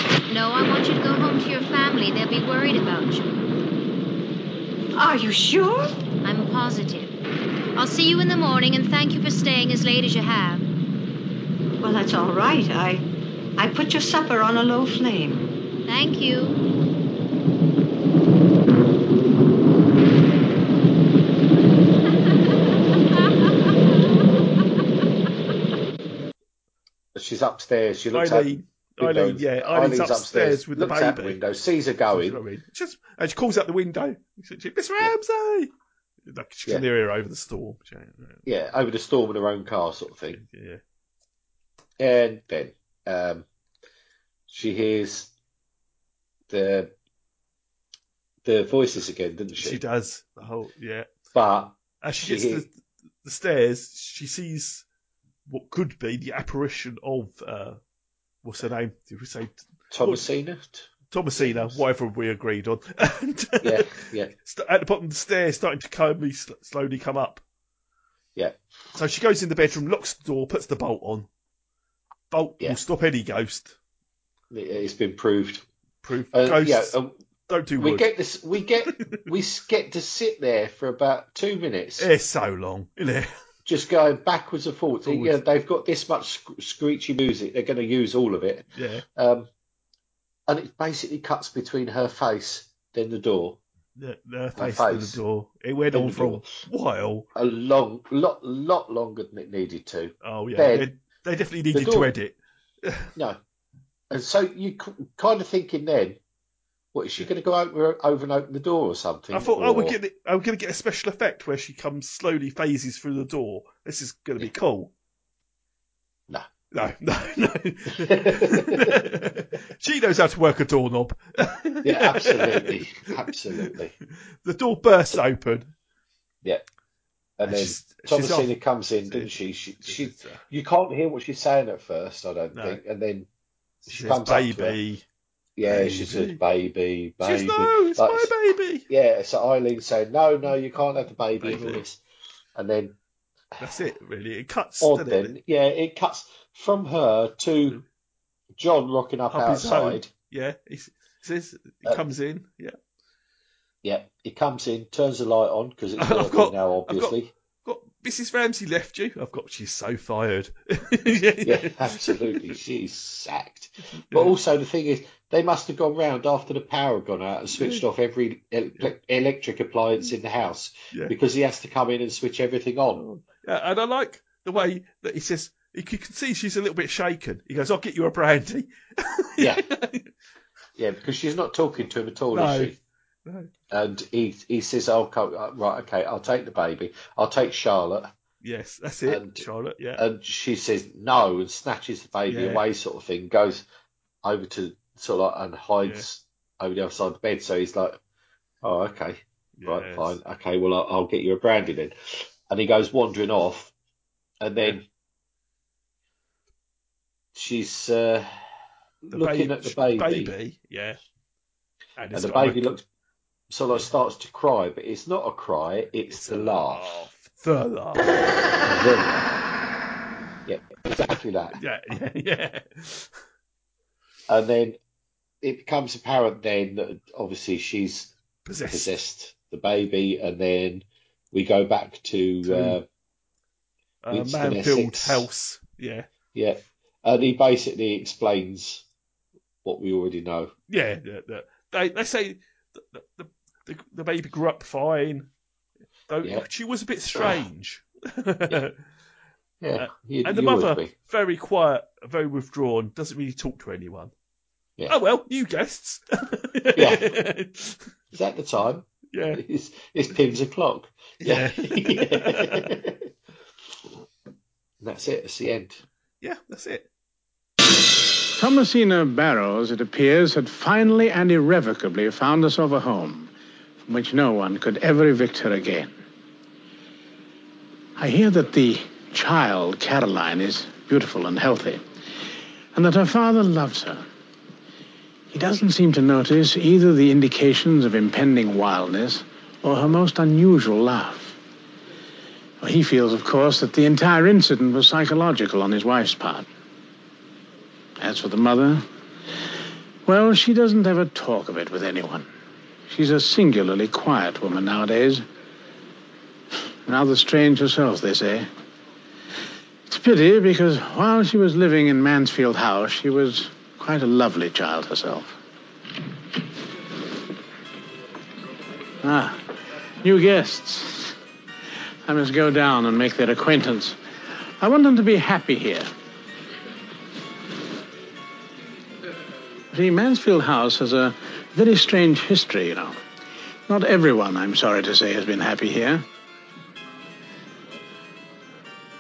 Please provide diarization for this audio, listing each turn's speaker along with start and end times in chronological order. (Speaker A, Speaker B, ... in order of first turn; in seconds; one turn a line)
Speaker A: 0.3-3.3
Speaker B: 5.0-5.9
Speaker A: 6.2-7.1
Speaker A: 7.8-10.6
Speaker B: 11.8-13.0
Speaker B: 13.6-15.4
Speaker A: 15.9-16.6
Speaker C: 27.1-32.4
Speaker D: 28.1-31.4
Speaker D: 32.1-35.7
Speaker D: 36.3-38.4
Speaker C: 38.5-40.4
Speaker D: 40.3-40.8
Speaker C: 42.0-43.5
Speaker C: 44.5-45.3
Speaker C: 46.5-46.9
Speaker C: 48.4-49.8
Speaker D: 49.6-51.1
Speaker C: 51.3-52.6
Speaker D: 52.0-52.7
Speaker D: 53.2-54.9
Speaker D: 55.5-57.8
Speaker D: 58.4-60.2
Speaker C: 59.9-61.8
Speaker D: 61.1-63.9
Speaker C: 63.6-64.3
Speaker D: 64.4-67.4
Speaker D: 68.9-71.3
Speaker D: 72.3-73.8
Speaker C: 74.5-75.6
Speaker D: 76.0-77.0
Speaker C: 76.3-77.1
Speaker D: 77.5-78.1
Speaker C: 77.8-82.1
Speaker D: 78.9-79.2
Speaker D: 82.0-83.3
Speaker C: 83.6-89.5
Speaker D: 85.0-85.4
Speaker D: 88.8-89.0
Speaker C: 90.5-93.6
Speaker D: 94.0-97.3
Speaker C: 94.6-95.2
Speaker C: 95.9-96.5
Speaker C: 97.3-100.9
Speaker D: 100.2-103.1
Speaker C: 101.7-102.1
Speaker C: 104.1-106.2
Speaker C: 106.9-110.0
Speaker D: 109.3-114.9
Speaker D: 116.7-122.8
Speaker C: 118.0-119.0
Speaker C: 121.8-123.9
Speaker D: 124.4-125.7
Speaker C: 127.4-133.3
Speaker D: 127.4-128.5
Speaker D: 129.1-130.4
Speaker D: 132.5-132.8
Speaker C: 133.8-134.8
Speaker D: 133.9-135.0
Speaker C: 135.6-138.3
Speaker D: 135.6-136.4
Speaker D: 137.2-138.9
Speaker C: 138.9-142.0
Speaker D: 141.4-141.8
Speaker C: 142.5-143.0
Speaker D: 143.6-145.3
Speaker C: 144.8-147.8
Speaker C: 148.6-150.1
Speaker D: 149.3-152.8
Speaker C: 153.8-157.3
Speaker D: 156.0-162.5
Speaker C: 161.4-173.0
Speaker D: 164.1-164.3
Speaker D: 167.6-167.8
Speaker D: 173.0-180.1
Speaker C: 179.4-179.6
Speaker C: 180.8-182.8
Speaker D: 182.3-182.8
Speaker D: 183.2-183.5
Speaker C: 183.7-188.1
Speaker D: 188.4-190.0
Speaker C: 189.1-189.4
Speaker C: 190.0-193.6
Speaker D: 192.3-192.6
Speaker C: 194.2-198.0
Speaker C: 198.6-203.7
Speaker D: 199.6-200.2
Speaker C: 204.4-204.8
Speaker C: 207.3-208.3
Speaker C: 209.0-210.3
Speaker D: 209.1-211.0
Speaker D: 212.0-212.7
Speaker C: 212.1-212.8
Speaker C: 213.5-216.9
Speaker D: 216.1-218.1
Speaker C: 218.6-219.3
Speaker C: 220.5-221.6
Speaker D: 221.5-223.1
Speaker C: 224.3-224.8
Speaker C: 225.4-228.1
Speaker D: 228.4-229.0
Speaker C: 228.7-232.8
Speaker D: 232.4-232.8
Speaker D: 234.0-236.1
Speaker C: 234.1-235.3
Speaker C: 236.3-238.8
Speaker C: 239.6-240.5
Speaker D: 240.7-245.3
Speaker D: 246.1-248.8
Speaker C: 249.6-250.9
Speaker D: 249.8-254.1
Speaker D: 254.9-257.9
Speaker C: 256.8-257.1
Speaker C: 258.1-263.1
Speaker D: 259.1-259.4
Speaker D: 261.2-262.7
Speaker C: 264.8-265.8
Speaker D: 266.2-266.9
Speaker E: 268.4-273.3
Speaker E: 273.9-276.0
Speaker E: 278.0-281.8
Speaker E: 282.7-284.0
Speaker E: 285.3-291.4
Speaker E: 292.6-296.5
Speaker E: 298.0-298.9
Speaker E: 300.1-302.3
Speaker E: 302.9-305.2
Speaker E: 306.9-308.5
Speaker E: 309.9-315.4
Speaker E: 319.0-321.1
Speaker E: 322.1-324.0
Speaker E: 324.6-325.9
Speaker E: 329.7-333.0
Speaker E: 333.7-336.0